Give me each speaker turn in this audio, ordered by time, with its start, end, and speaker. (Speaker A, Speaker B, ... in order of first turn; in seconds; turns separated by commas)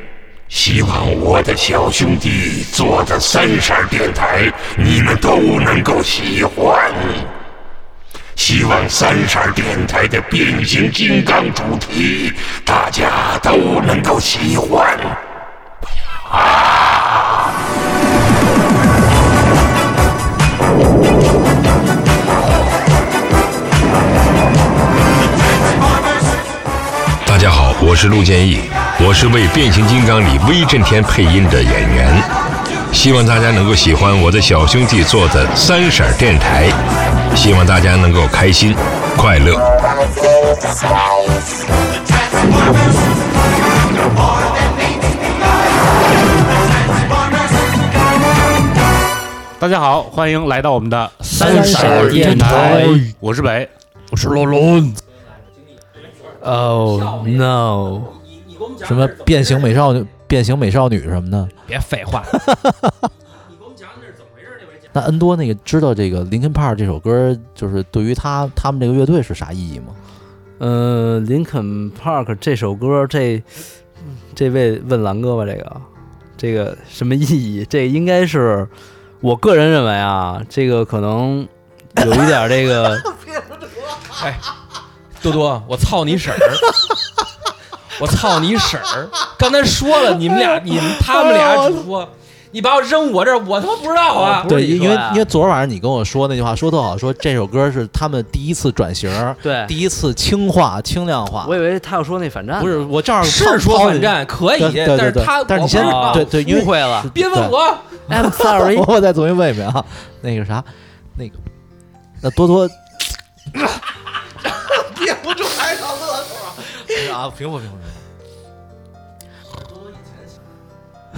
Speaker A: 0.5-7.2, Speaker A: 8.3-15.2, Speaker A: 16.3-17.0, Speaker B: 27.3-32.3, Speaker B: 32.9-36.7, Speaker B: 37.3-39.7, Speaker C: 49.6-53.7, Speaker D: 51.2-52.8, Speaker E: 51.3-53.1, Speaker F: 51.3-53.0, Speaker E: 54.1-55.0, Speaker D: 56.4-59.8, Speaker E: 56.4-58.1, Speaker F: 58.9-61.5, Speaker D: 61.7-62.4, Speaker F: 62.3-62.9, Speaker D: 63.3-64.9, Speaker F: 64.9-70.0, Speaker E: 70.6-83.1, Speaker D: 84.2-84.4, Speaker D: 85.2-86.7, Speaker D: 88.0-94.5, Speaker E: 94.2-95.3, Speaker F: 94.5-101.6, Speaker E: 99.4-99.8, Speaker E: 101.4-102.9, Speaker F: 102.6-107.6, Speaker D: 103.2-106.4, Speaker E: 105.7-107.1, Speaker D: 107.1-108.1, Speaker E: 108.1-108.9, Speaker F: 108.1-111.4, Speaker F: 112.2-112.9, Speaker F: 115.1-118.0, Speaker D: 119.5-120.3